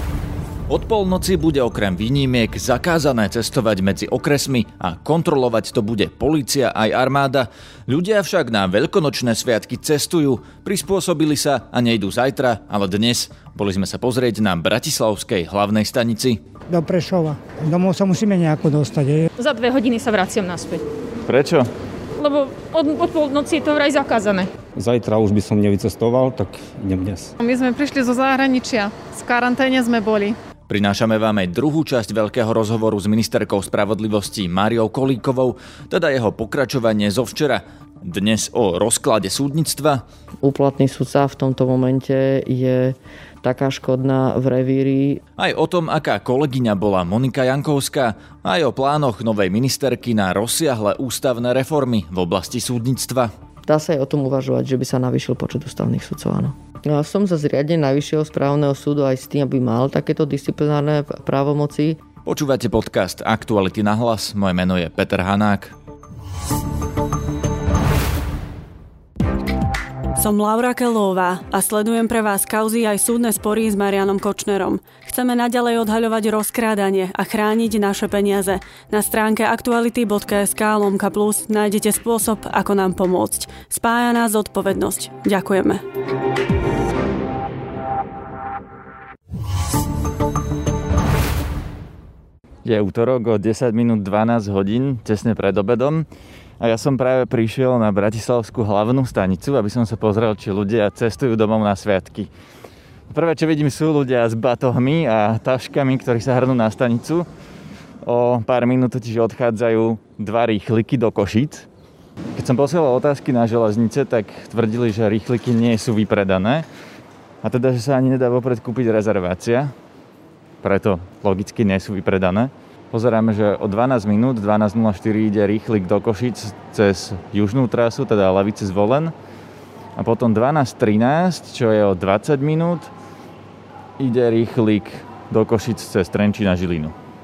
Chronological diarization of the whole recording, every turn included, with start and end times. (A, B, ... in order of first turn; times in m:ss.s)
0:00.7-0:16.4 A
0:16.7-0:19.3 B
0:19.4-0:20.8 C
0:21.2-0:21.7 A
0:22.2-0:24.5 C
0:24.8-0:27.3 D
0:27.4-0:30.4 E
0:30.7-0:40.0 A
0:40.4-0:45.2 F
0:45.4-0:53.3 A
0:53.7-1:02.0 F
1:02.2-1:05.7 A
1:10.2-1:25.8 G
1:32.6-1:36.1 A
1:36.6-1:42.3 A
1:43.1-1:47.3 A
1:48.0-1:51.7 A
1:52.4-1:56.7 A
1:57.4-1:59.7 A
2:00.6-2:09.1 A
2:10.0-2:12.9 A
2:14.0-2:17.0 A